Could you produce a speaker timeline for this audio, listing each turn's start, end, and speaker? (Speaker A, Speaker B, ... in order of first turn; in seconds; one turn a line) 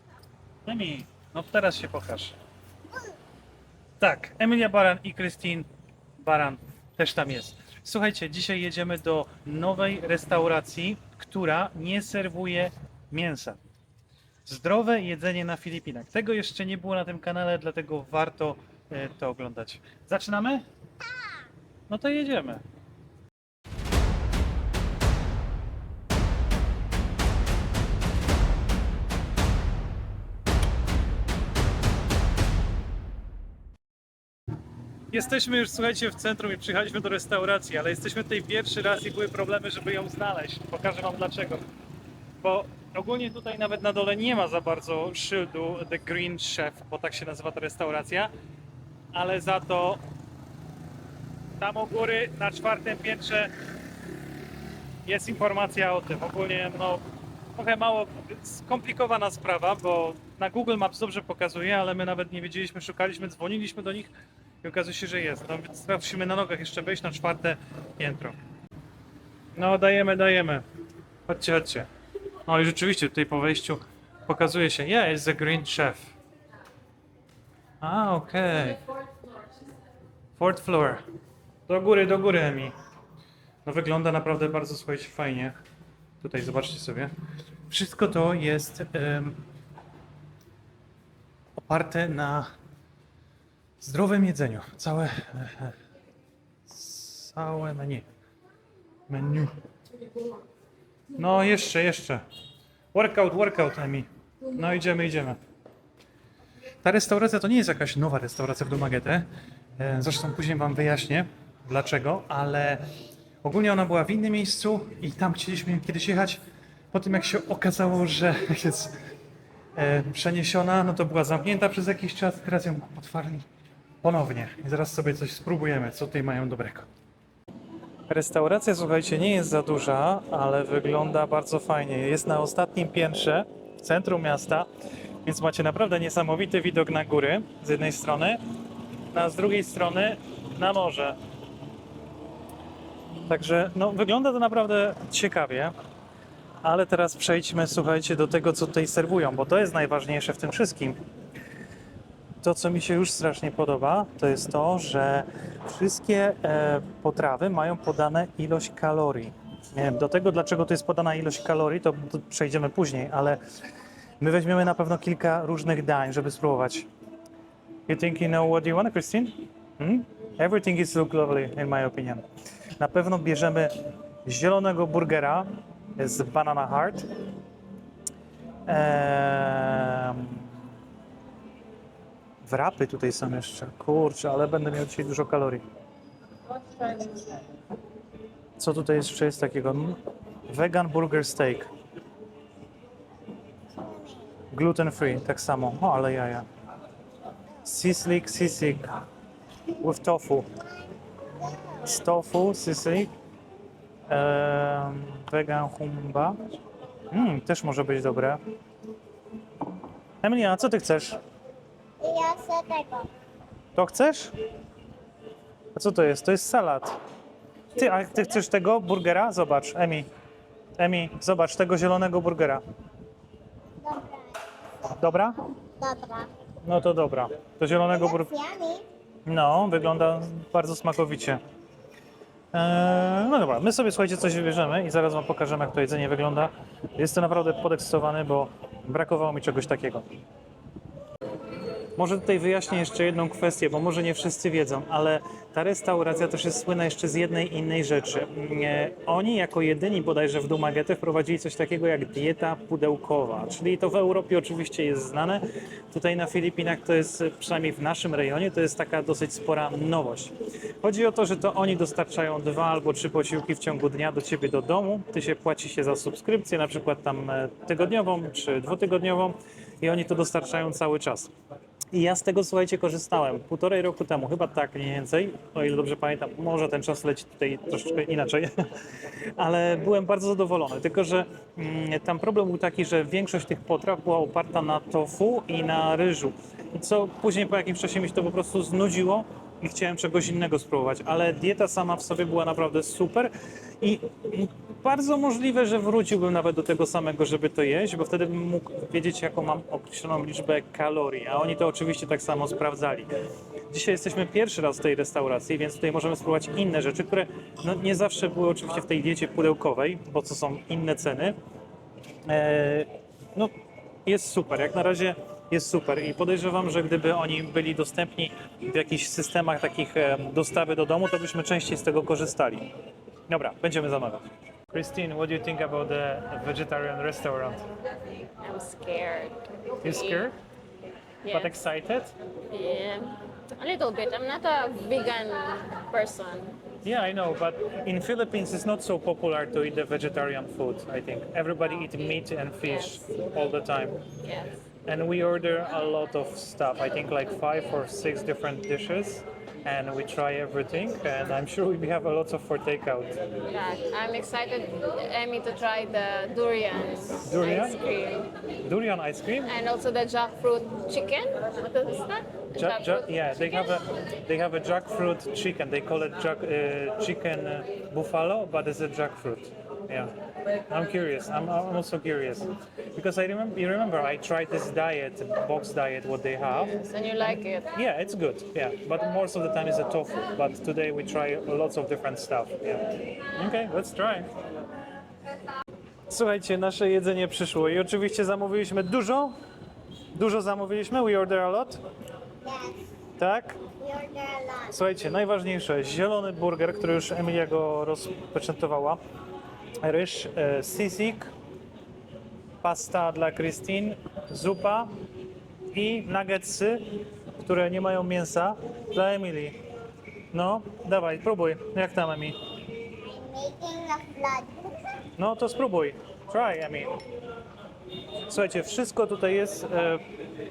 Speaker A: 0.7-2.4
Speaker A: 4.0-13.6
Speaker A: 14.5-20.6
Speaker A: 21.9-22.6
Speaker A: 35.1-41.6
Speaker A: 42.4-48.3
Speaker A: 49.1-50.0
Speaker A: 51.6-53.5
Speaker A: 55.1-57.0
Speaker A: 57.6-68.4
Speaker A: 69.5-70.6
Speaker A: 71.3-71.9
Speaker A: 72.5-76.2
Speaker A: 77.8-78.8
Speaker A: 80.4-81.0
Speaker A: 81.7-82.7
Speaker A: 83.7-85.5
Speaker A: 86.2-87.1
Speaker A: 87.7-89.4
Speaker A: 91.6-92.5
Speaker A: 93.8-95.8
Speaker A: 96.7-98.0
Speaker A: 99.1-99.5
Speaker A: 101.2-102.2
Speaker A: 102.9-105.4
Speaker A: 106.8-112.8
Speaker A: 113.4-116.4
Speaker A: 116.9-119.0
Speaker A: 119.8-123.5
Speaker A: 124.0-126.9
Speaker A: 128.1-134.7
Speaker A: 135.2-138.4
Speaker A: 139.1-141.2
Speaker A: 143.3-145.7
Speaker A: 146.6-151.0
Speaker A: 152.4-163.4
Speaker A: 164.2-166.9
Speaker A: 167.9-172.2
Speaker A: 172.8-173.7
Speaker A: 174.3-177.1
Speaker A: 178.7-180.5
Speaker A: 182.4-185.6
Speaker A: 188.6-191.7
Speaker B: 193.8-194.3
Speaker A: 194.5-196.5
Speaker A: 197.6-198.9
Speaker A: 199.8-200.5
Speaker B: 201.4-201.8
Speaker A: 201.8-203.1
Speaker A: 204.1-206.4
Speaker A: 207.1-208.4
Speaker A: 210.2-211.2
Speaker B: 212.0-213.1
Speaker A: 213.8-214.3
Speaker A: 215.7-217.0
Speaker A: 217.8-220.1
Speaker A: 220.8-222.6
Speaker B: 223.8-224.9
Speaker A: 225.0-225.4
Speaker B: 225.6-226.3
Speaker A: 226.6-228.3
Speaker B: 227.9-228.8
Speaker A: 229.3-231.4
Speaker A: 232.5-240.1
Speaker A: 242.0-271.3
Speaker A: 271.9-278.5
Speaker A: 279.4-303.1
Speaker A: 303.7-311.4
Speaker A: 312.3-313.5
Speaker A: 314.1-322.7
Speaker A: 323.3-327.6
Speaker C: 328.4-330.3
Speaker A: 329.8-330.4
Speaker C: 331.2-331.5
Speaker A: 331.3-332.1
Speaker C: 332.5-336.6
Speaker A: 336.8-344.1
Speaker C: 342.6-343.0
Speaker C: 344.1-344.6
Speaker A: 344.9-353.2
Speaker C: 353.5-358.3
Speaker A: 357.2-357.8
Speaker A: 358.6-359.6
Speaker C: 359.5-363.1
Speaker A: 362.5-370.1
Speaker A: 370.7-376.8
Speaker C: 376.8-377.7
Speaker A: 377.7-384.3
Speaker A: 386.1-389.3
Speaker A: 390.1-391.8
Speaker B: 392.4-392.8
Speaker A: 393.2-393.6
Speaker B: 393.8-394.7
Speaker A: 394.7-399.0
Speaker A: 399.8-401.3
Speaker A: 402.6-404.9
Speaker A: 405.7-406.8
Speaker A: 407.4-409.6
Speaker A: 410.3-412.4
Speaker B: 413.0-415.0
Speaker A: 415.2-416.9
Speaker A: 418.3-420.0